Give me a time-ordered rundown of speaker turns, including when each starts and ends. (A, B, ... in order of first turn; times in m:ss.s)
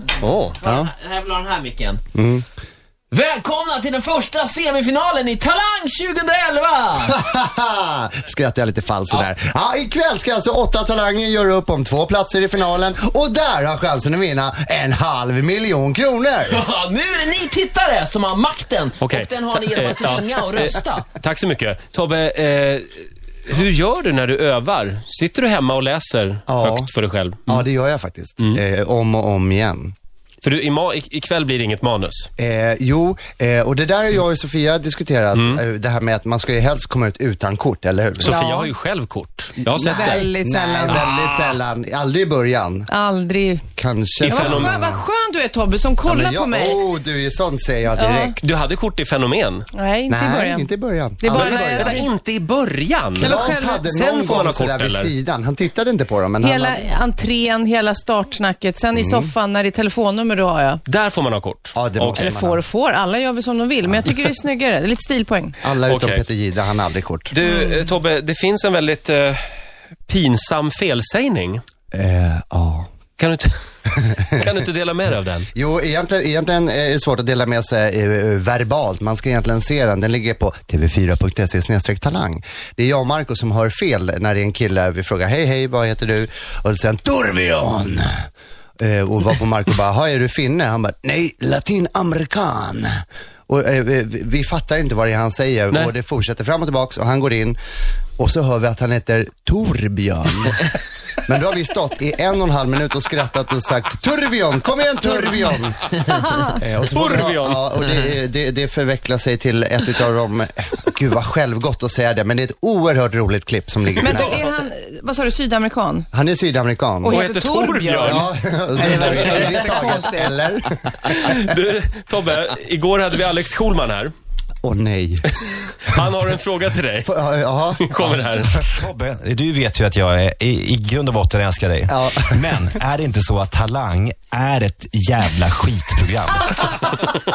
0:00.2-0:00.5 A
0:00.6-0:02.0 B
0:00.6-0:00.9 C
0:02.1-0:02.4 C
0:03.1-0:07.2 B
0:07.1-0:16.6 C
0:16.5-0:21.0 B
0:19.0-0:27.6 A
0:26.5-0:26.9 C
0:27.5-0:29.9 C
0:30.4-0:32.3 A
0:32.4-0:38.4 C
0:35.3-0:35.6 A
0:38.2-0:40.3 A
0:38.2-0:38.7 D
0:39.6-0:42.9 C
0:39.8-0:41.1 D
0:40.9-0:41.5 A
0:42.9-0:43.6 D
0:43.8-0:45.0 C
0:44.2-0:44.7 A
0:44.3-0:46.8 D
0:46.0-0:48.4 C
0:47.9-0:48.4 D
0:48.4-0:49.6 A
0:49.7-0:50.7 D
0:50.1-0:52.1 C
0:51.2-0:52.1 D
0:51.3-0:55.1 A
0:53.2-0:56.9 C
0:53.2-0:54.1 D
0:56.4-1:00.8 D
0:58.9-0:59.3 C
1:00.9-1:02.3 A
1:01.7-1:02.6 C
1:02.1-1:05.6 D
1:03.8-1:04.3 C
1:05.6-1:07.3 C
1:05.9-1:06.2 A
1:07.3-1:09.4 A
1:07.4-1:07.8 D
1:10.1-1:11.6 A
1:11.9-1:12.9 C
1:13.2-1:13.6 A
1:14.0-1:14.6 C
1:14.2-1:15.5 A
1:15.5-1:28.3 C
1:28.8-1:37.6 C
1:38.2-1:45.9 C
1:46.2-1:46.4 D
1:46.4-1:54.5 C
1:46.8-1:47.7 A
1:54.0-1:56.1 D
1:54.0-1:54.3 A
1:56.1-1:57.2 C
1:57.0-2:00.5 D
1:57.0-1:58.2 A
1:58.0-2:01.4 C
1:58.8-1:59.7 A
2:01.0-2:04.1 A
2:04.6-2:06.1 C
2:05.8-2:07.1 A
2:07.0-2:08.4 C
2:07.8-2:08.7 A
2:08.7-2:16.8 E
2:11.9-2:12.4 C